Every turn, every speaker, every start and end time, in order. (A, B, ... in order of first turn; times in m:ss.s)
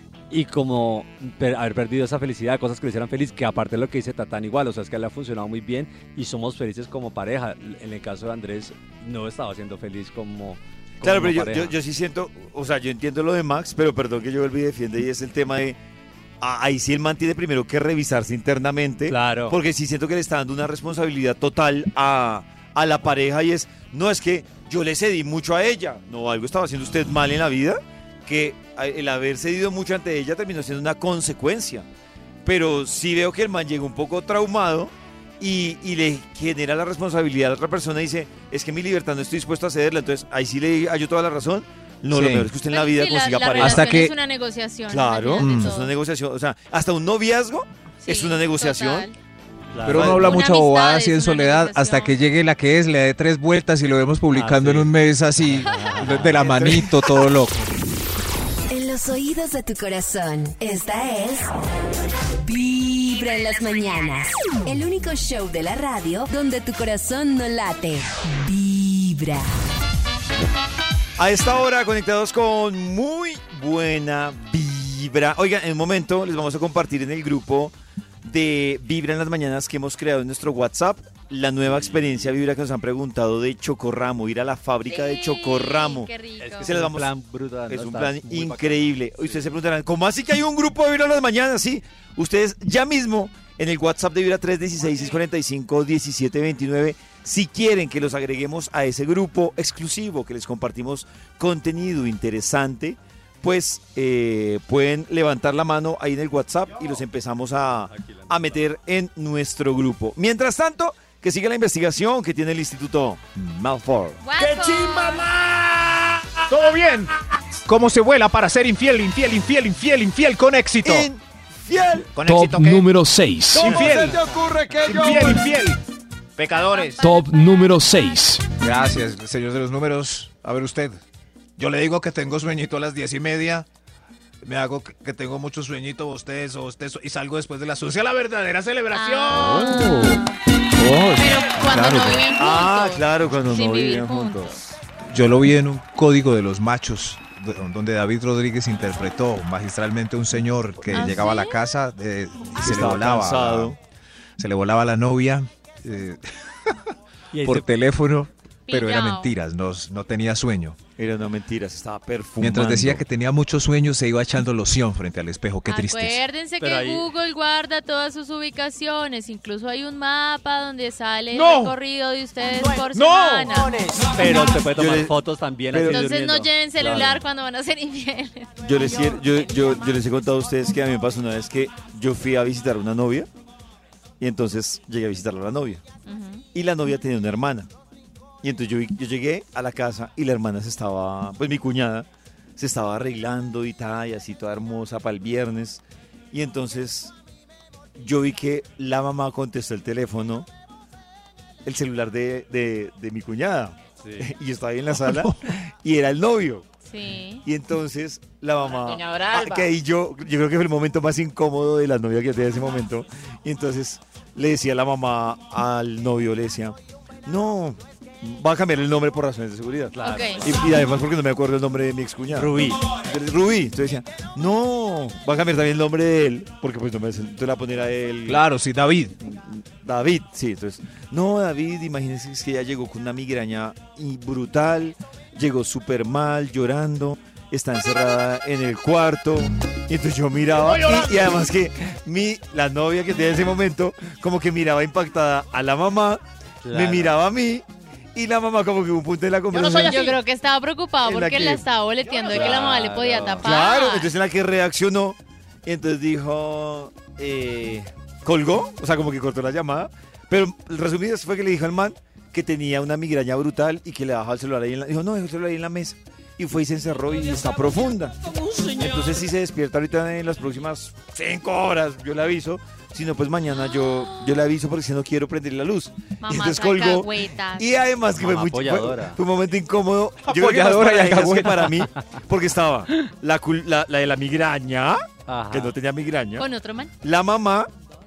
0:00.3-0:11.8 A
0:11.0-0:15.8 B
0:16.4-0:31.8 B
0:19.1-0:19.6 A
0:32.4-0:43.9 B
0:42.1-0:42.5 C
0:42.7-0:45.9 D
0:43.6-0:44.1 C
0:44.9-0:49.1 B
0:45.4-0:45.7 C
0:48.0-0:49.1 D
0:49.7-0:50.4 A
0:49.8-0:57.7 C
0:49.9-0:50.3 B
0:50.1-0:52.1 D
0:54.3-0:56.8 A
0:58.7-1:01.5 E
1:02.4-1:09.5 E
1:11.2-1:26.1 B
1:21.6-1:22.3 A
1:24.9-1:26.7 D
1:26.4-1:29.5 A
1:26.6-1:27.1 B
1:27.7-1:54.6 B
1:47.9-1:48.6 A
1:54.2-1:55.3 D
1:56.5-1:57.1 C
1:57.6-2:01.1 C
2:00.8-2:02.1 B
2:02.2-2:02.8 F
2:02.2-2:03.8 G
2:03.6-2:04.2 C
2:03.6-2:05.5 B
2:04.9-2:05.8 C
2:06.4-2:07.0 F
2:06.7-2:07.2 D
2:07.0-2:08.4 G
2:08.6-2:11.0 C
2:11.6-2:13.7 C
2:14.4-2:20.2 C
2:18.9-2:20.4 D
2:18.9-2:19.8 F
2:20.8-2:22.2 C
2:21.2-2:24.6 D
2:22.4-2:24.6 B
2:25.1-2:33.7 C
2:30.9-2:31.6 D
2:32.6-2:33.8 B
2:34.4-2:36.8 C
2:37.3-2:37.6 A
2:37.4-2:40.8 C
2:38.7-2:39.3 D
2:41.0-2:43.0 B
2:42.4-2:46.2 C
2:45.7-2:53.8 D
2:46.6-2:47.1 A
2:51.3-2:51.7 C
2:52.9-2:53.5 C
2:54.1-2:57.2 A
2:54.7-2:55.1 B
2:55.7-2:56.0 B
2:55.8-2:58.5 D
2:58.6-3:03.3 B
3:04.2-3:05.8 B
3:06.0-3:06.4 D
3:06.5-3:07.7 B
3:08.4-3:17.1 B
3:18.0-3:20.5 B
3:21.6-3:26.6 B
3:24.0-3:24.3 A
3:25.0-3:25.4 C
3:26.9-3:27.4 D
3:27.4-3:48.4 B
3:28.7-3:29.7 F
3:40.0-3:40.8 A
3:40.0-3:40.4 D
3:42.3-3:42.9 A
3:48.2-3:49.1 C
3:49.2-4:10.0 B
4:00.5-4:01.5 F
4:06.6-4:07.2 A
4:09.5-4:10.2 F
4:09.8-4:14.1 D
4:11.0-4:11.6 B
4:12.1-4:12.5 F
4:12.3-4:13.6 A
4:13.4-4:28.2 B
4:28.7-4:46.5 B
4:36.2-4:37.7 D
4:38.1-4:39.2 A
4:40.2-4:41.8 C
4:41.9-4:42.2 A
4:45.3-4:45.8 A
4:46.4-4:46.9 D
4:47.0-4:47.7 B